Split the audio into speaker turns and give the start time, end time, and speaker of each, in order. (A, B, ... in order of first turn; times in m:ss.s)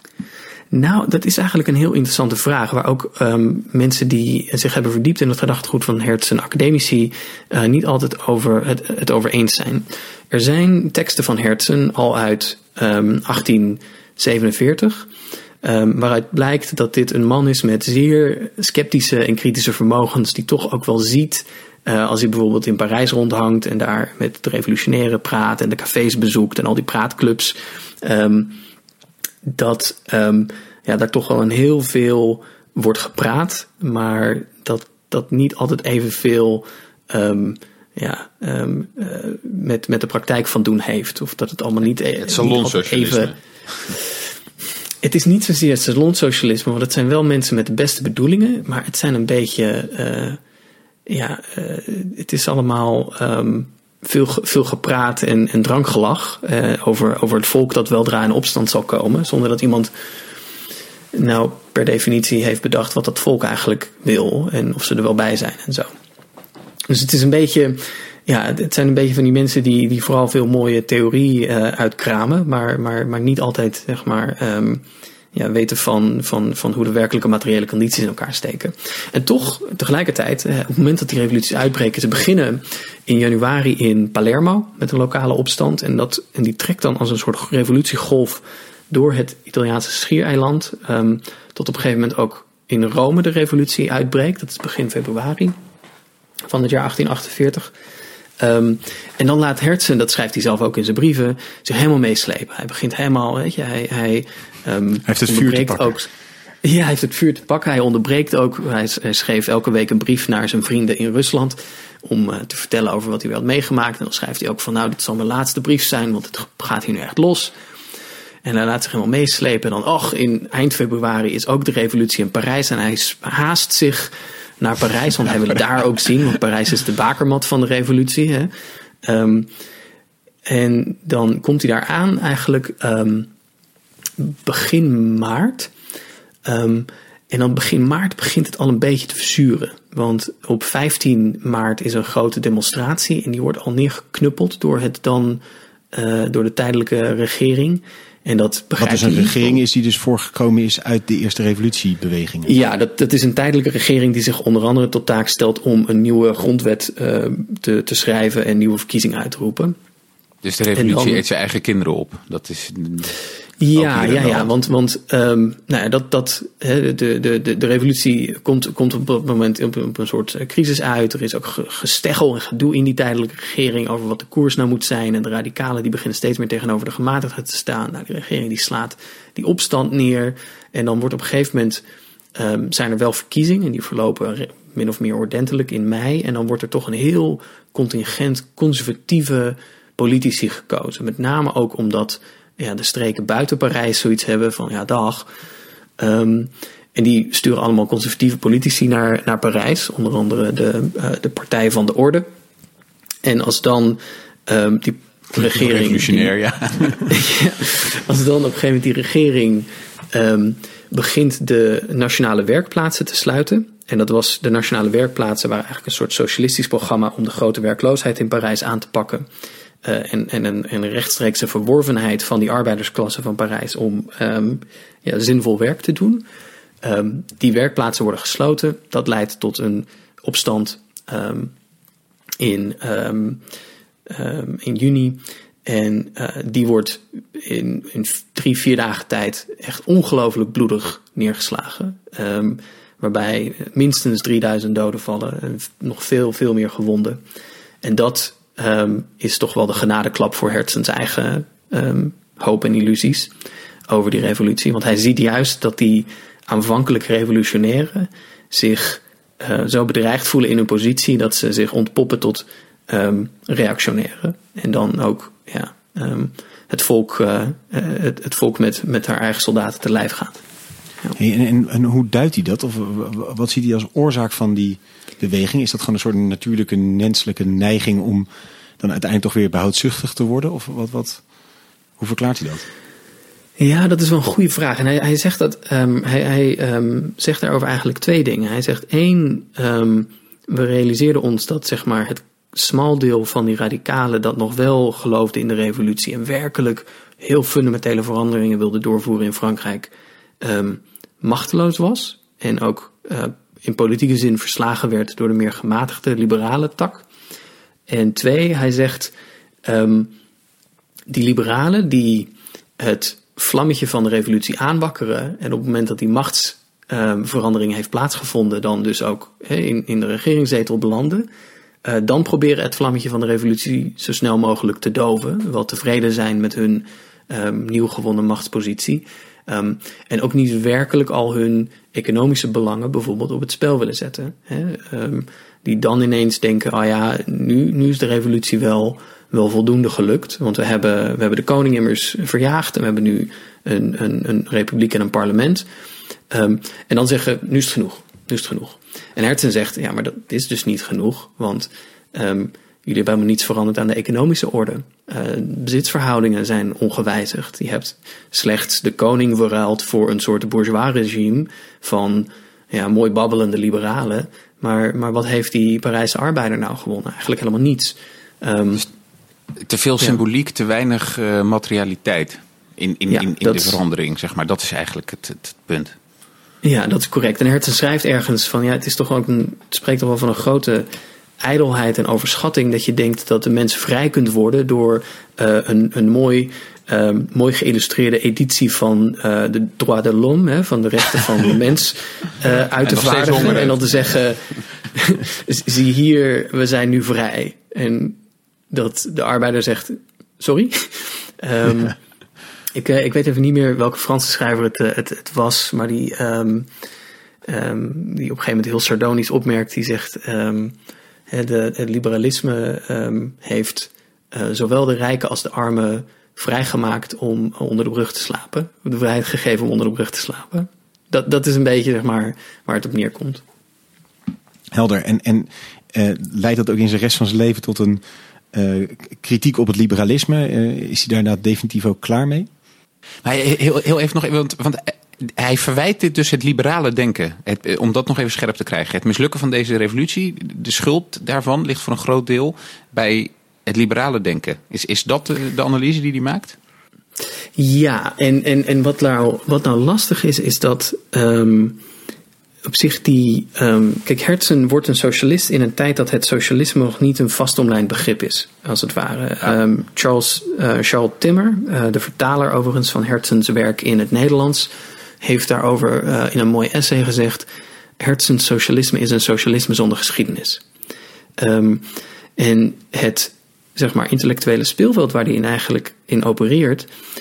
0:00.7-0:15.1 A
0:15.6-0:28.6 A
0:29.4-0:43.3 A
0:42.2-0:43.3 B
0:45.0-0:50.4 A
0:51.1-0:59.9 A
1:01.1-1:05.9 A
1:06.9-1:14.8 A
1:15.3-1:35.6 A
1:36.5-1:37.7 A
1:38.4-1:46.1 A
1:45.0-1:46.0 C
1:46.6-1:57.5 A
1:58.4-2:08.5 A
2:09.0-2:09.5 A
2:10.5-2:13.3 A
2:14.2-2:15.7 A
2:16.4-2:29.6 A
2:28.8-2:32.5 C
2:32.4-2:39.8 A
2:40.4-2:43.1 B
2:40.7-2:41.2 A
2:43.6-3:01.8 A
2:43.8-2:44.5 B
3:02.4-3:15.3 A
3:16.0-3:22.3 A
3:23.2-3:26.3 A
3:25.4-3:27.1 B
3:26.9-3:39.2 A
3:39.8-3:46.2 A
3:46.8-3:51.5 A
3:52.4-3:53.4 A
3:54.1-4:07.2 A
4:07.8-4:13.3 A
4:13.9-4:30.4 A
4:31.2-4:38.3 C
4:38.8-4:41.2 C
4:42.0-4:42.6 C
4:43.6-5:07.0 A
5:07.9-5:09.1 A
5:09.6-5:10.1 A
5:11.1-5:21.3 A
5:21.8-5:45.6 A
5:46.3-6:08.8 A
6:09.6-6:15.9 B
6:13.1-6:13.8 A
6:16.6-6:20.9 A
6:21.4-6:38.2 A
6:32.8-6:34.1 B
6:38.7-6:42.0 A
6:42.7-6:46.7 A
6:47.5-6:50.8 A
6:51.3-7:03.4 A
7:04.7-7:08.0 C
7:08.5-7:12.5 C
7:13.2-7:26.6 B
7:27.6-7:31.8 A
7:32.6-7:47.4 A
7:48.0-7:50.6 A
7:51.4-7:56.9 A